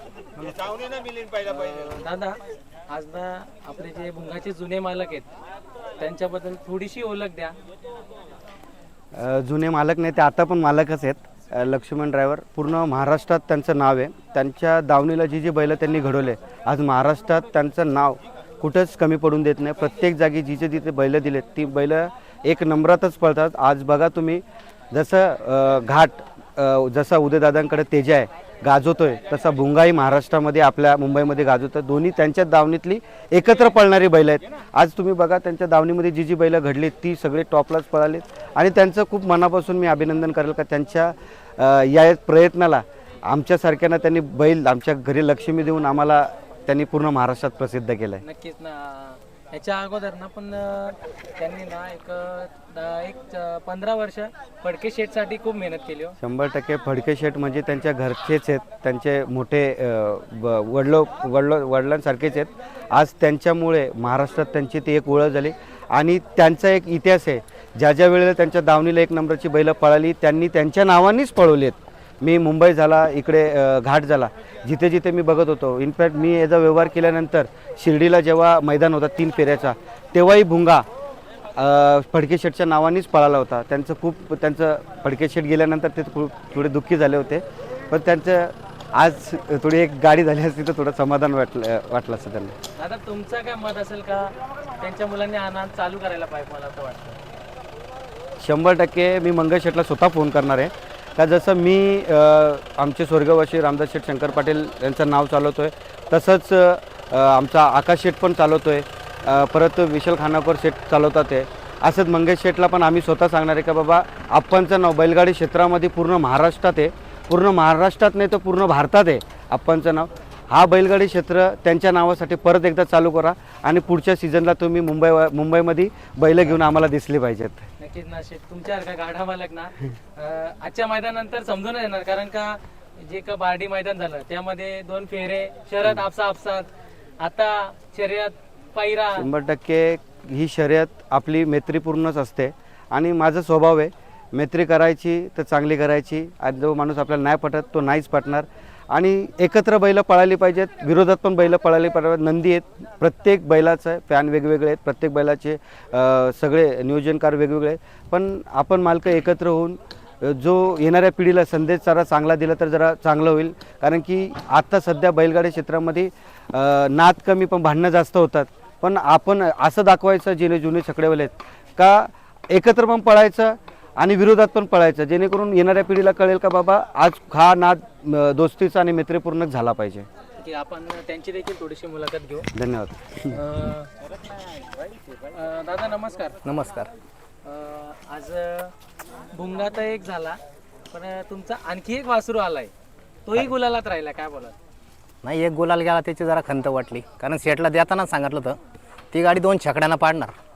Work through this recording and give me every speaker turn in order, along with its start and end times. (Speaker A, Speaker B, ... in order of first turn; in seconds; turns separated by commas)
Speaker A: 1.4-2.4, Speaker A: 2.9-5.3, Speaker A: 6.0-7.5, Speaker B: 9.1-48.2, Speaker A: 48.2-56.2, Speaker B: 56.2-80.8, Speaker B: 81.6-92.5, Speaker A: 92.8-97.2, Speaker B: 98.4-127.6, Speaker A: 127.8-136.7, Speaker A: 137.2-139.3, Speaker B: 139.2-180.1, Speaker A: 180.4-182.5, Speaker B: 182.5-183.3, Speaker A: 183.3-183.9, Speaker A: 185.3-186.4, Speaker C: 186.4-186.9, Speaker A: 187.4-188.8, Speaker A: 189.3-190.4, Speaker A: 190.9-192.7, Speaker A: 193.3-194.6, Speaker C: 195.2-198.6, Speaker C: 199.1-200.3